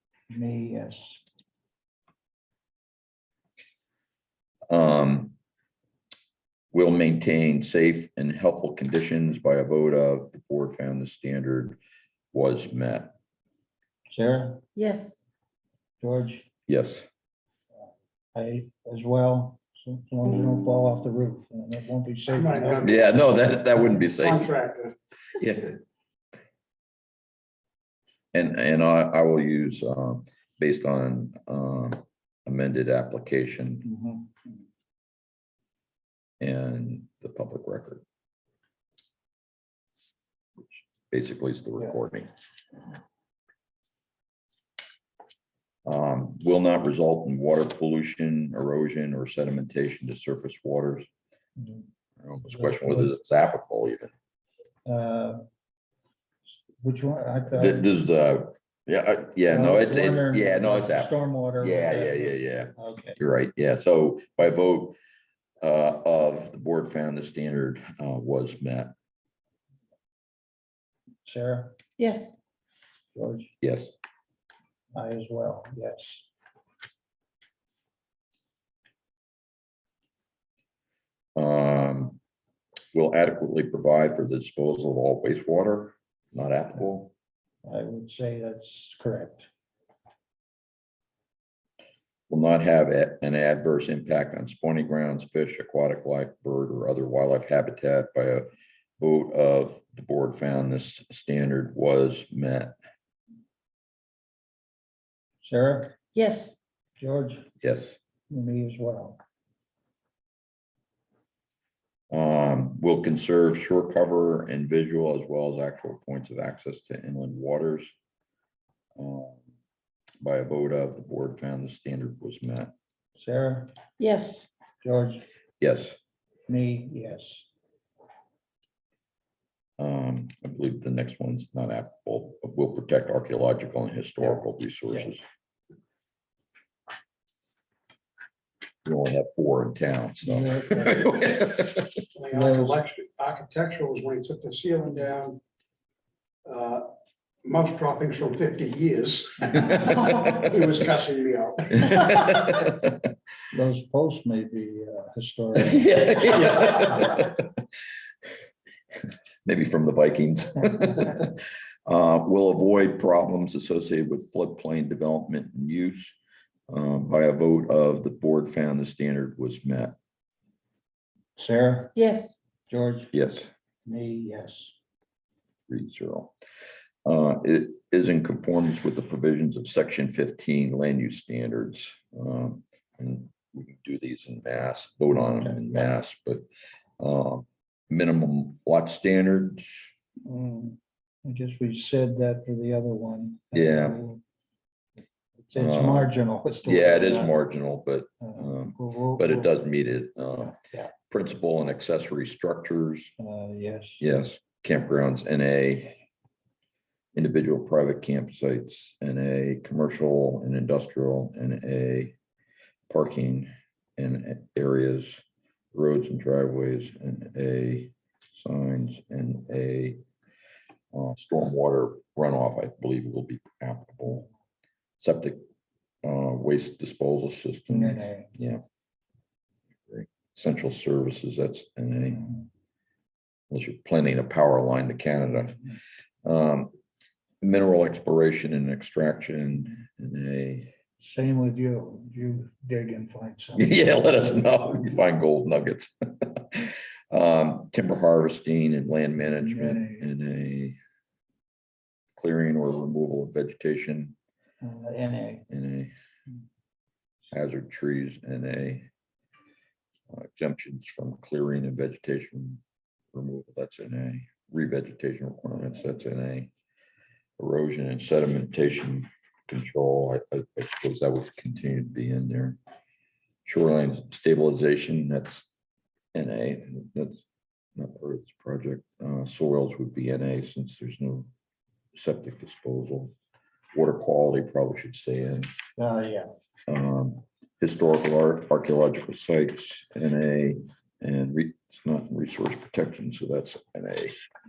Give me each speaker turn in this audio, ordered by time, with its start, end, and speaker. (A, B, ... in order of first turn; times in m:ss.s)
0:00.3-0:01.2 A
0:04.7-0:05.4 B
0:06.7-0:11.8 B
0:12.3-0:13.2 B
0:14.1-0:14.6 A
0:14.8-0:15.2 C
0:16.0-0:16.5 A
0:16.7-0:17.1 B
0:18.4-0:23.6 A
0:22.3-0:23.2 D
0:22.8-0:24.5 B
0:23.9-0:25.0 D
0:25.4-0:25.8 B
0:28.3-0:33.9 B
0:33.8-0:34.3 A
0:36.4-0:38.0 B
0:40.6-0:42.3 B
0:45.9-0:51.1 B
0:51.6-0:51.8 A
0:52.2-0:54.1 B
0:52.5-0:53.1 A
0:54.8-0:55.4 A
0:56.8-0:57.9 A
0:57.5-1:05.0 B
0:59.5-1:03.2 A
1:05.6-1:08.9 B
1:11.2-1:11.8 A
1:12.0-1:12.4 C
1:13.2-1:13.5 A
1:13.6-1:14.0 B
1:14.9-1:16.3 A
1:21.4-1:22.2 B
1:22.9-1:27.1 B
1:27.6-1:29.5 A
1:32.3-1:38.5 B
1:39.0-1:42.7 B
1:45.4-1:46.0 A
1:46.2-1:46.6 C
1:47.0-1:47.5 A
1:47.6-1:48.0 B
1:48.3-1:49.2 A
1:52.1-1:58.0 B
1:59.0-1:59.4 B
2:00.2-2:02.7 B
2:03.2-2:03.7 A
2:04.0-2:04.5 C
2:04.8-2:05.2 A
2:05.6-2:06.0 B
2:06.5-2:07.5 A
2:09.8-2:15.2 B
2:18.8-2:21.9 B
2:20.2-2:21.3 A
2:22.1-2:25.4 D
2:22.3-2:22.8 A
2:26.4-2:26.9 D
2:27.4-2:31.8 D
2:31.8-2:33.0 B
2:33.5-2:36.0 A
2:35.6-2:37.4 B
2:39.4-2:46.2 B
2:46.7-2:50.0 B
2:51.4-2:52.0 A
2:52.0-2:52.4 C
2:52.7-2:53.1 A
2:53.1-2:53.5 B
2:53.9-2:54.8 A
2:55.7-2:56.3 B
2:57.0-3:06.4 B
3:05.4-3:05.9 A
3:07.0-3:09.7 B
3:10.2-3:14.2 A
3:13.5-3:14.0 B
3:15.4-3:17.4 A
3:15.6-3:16.1 B
3:16.6-3:23.1 B
3:18.2-3:19.5 A
3:20.6-3:20.9 A
3:23.2-3:24.0 A
3:24.0-3:26.0 B
3:27.2-3:32.2 B
3:32.9-3:40.0 B
3:40.9-3:44.3 B
3:45.0-3:45.4 B
3:46.0-3:48.6 B
3:47.7-3:48.3 A
3:49.9-3:52.3 B
3:53.5-3:55.6 B
3:56.2-3:56.7 B
3:57.4-4:00.7 B
4:01.0-4:04.3 A
4:03.6-4:10.8 B
4:09.2-4:10.1 A
4:12.2-4:14.2 B
4:14.6-4:15.5 A
4:15.5-4:15.9 B
4:17.3-4:18.9 B
4:20.1-4:22.6 B
4:23.1-4:26.5 B
4:27.4-4:32.6 B
4:33.4-4:35.5 B
4:36.1-4:37.2 B
4:37.8-4:41.3 B
4:41.9-4:43.1 B
4:43.7-4:45.5 B
4:45.8-4:46.3 A
4:46.7-4:54.2 B